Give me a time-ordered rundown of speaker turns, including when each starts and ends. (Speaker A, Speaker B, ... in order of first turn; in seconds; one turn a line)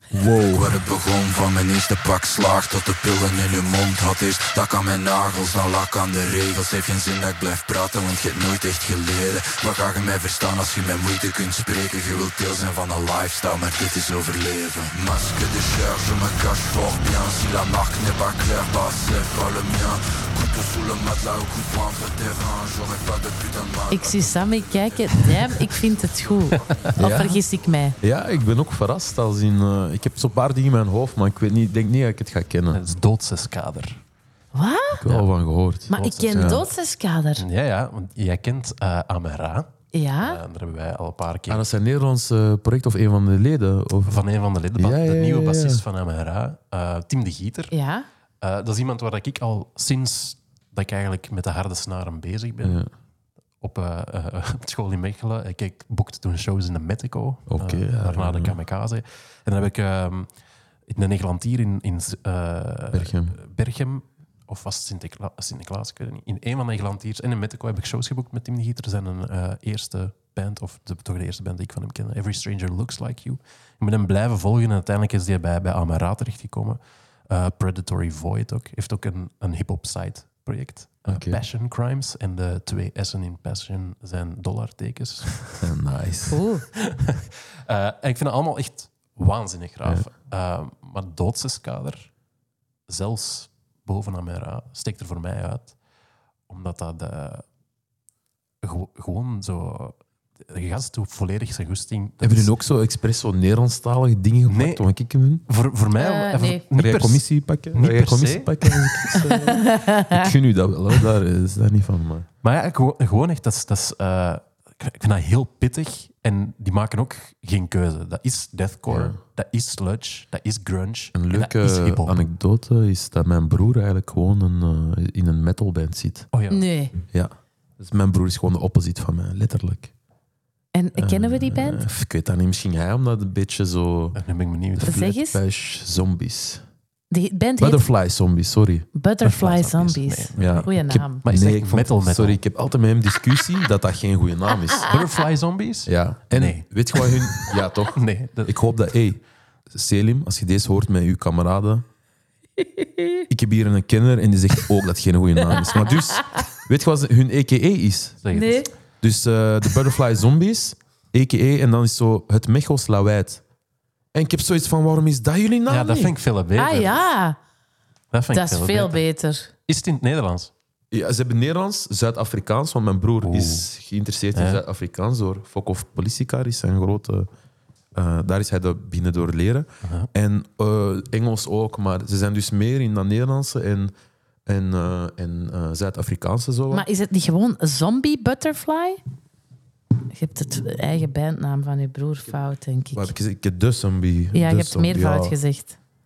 Speaker A: 0.1-0.8
Speaker B: 0.5-24.9
Speaker C: 23.9-28.0
Speaker D: 26.5-27.4
Speaker A: 27.0-27.4
Speaker A: 28.0-32.8
Speaker D: 32.7-34.0
Speaker C: 34.5-35.0
Speaker A: 35.0-36.7
Speaker D: 35.9-36.7
Speaker C: 35.9-37.4
Speaker D: 37.4-41.7
Speaker C: 39.9-40.4
Speaker A: 41.5-44.2
Speaker D: 44.1-47.7
Speaker A: 44.8-45.8
Speaker C: 47.7-48.1
Speaker D: 48.4-52.8
Speaker A: 52.6-52.9
Speaker D: 53.6-60.3
Speaker A: 57.5-58.6
Speaker D: 60.9-85.8
Speaker A: 62.9-63.4
Speaker A: 81.1-81.4
Speaker A: 85.6-86.4
Speaker C: 86.3-86.7
Speaker D: 86.8-92.1
Speaker D: 92.9-95.8
Speaker D: 96.5-97.4
Speaker D: 98.6-102.5
Speaker A: 102.2-105.5
Speaker D: 104.5-104.8
Speaker D: 105.5-109.2
Speaker C: 106.0-106.6
Speaker A: 106.7-112.3
Speaker C: 109.3-110.3
Speaker D: 112.4-122.2
Speaker A: 118.9-119.2
Speaker A: 121.2-126.3
Speaker D: 126.3-126.7
Speaker C: 126.5-127.0
Speaker A: 127.1-129.9
Speaker C: 130.7-131.8
Speaker A: 131.0-134.2
Speaker D: 134.2-135.1
Speaker A: 134.8-136.6
Speaker C: 134.8-135.4
Speaker C: 137.1-137.8
Speaker A: 137.6-138.9
Speaker C: 138.9-141.2
Speaker D: 139.2-140.7
Speaker A: 140.3-144.9
Speaker D: 141.2-142.4
Speaker D: 144.8-148.6
Speaker A: 145.9-151.8
Speaker C: 152.6-153.3
Speaker A: 153.3-158.2
Speaker C: 156.2-156.4
Speaker D: 158.2-158.6
Speaker C: 158.3-158.7
Speaker A: 159.0-163.4
Speaker A: 164.1-166.1
Speaker D: 165.7-167.0
Speaker C: 166.6-167.4
Speaker D: 168.1-169.0
Speaker C: 168.3-169.5
Speaker D: 169.7-170.5
Speaker A: 170.9-177.3
Speaker D: 173.2-173.7
Speaker D: 174.3-174.6
Speaker A: 177.9-183.9
Speaker D: 179.8-180.1
Speaker A: 184.5-186.9
Speaker C: 186.7-189.0
Speaker C: 190.1-193.1
Speaker A: 192.9-195.4
Speaker C: 194.3-195.8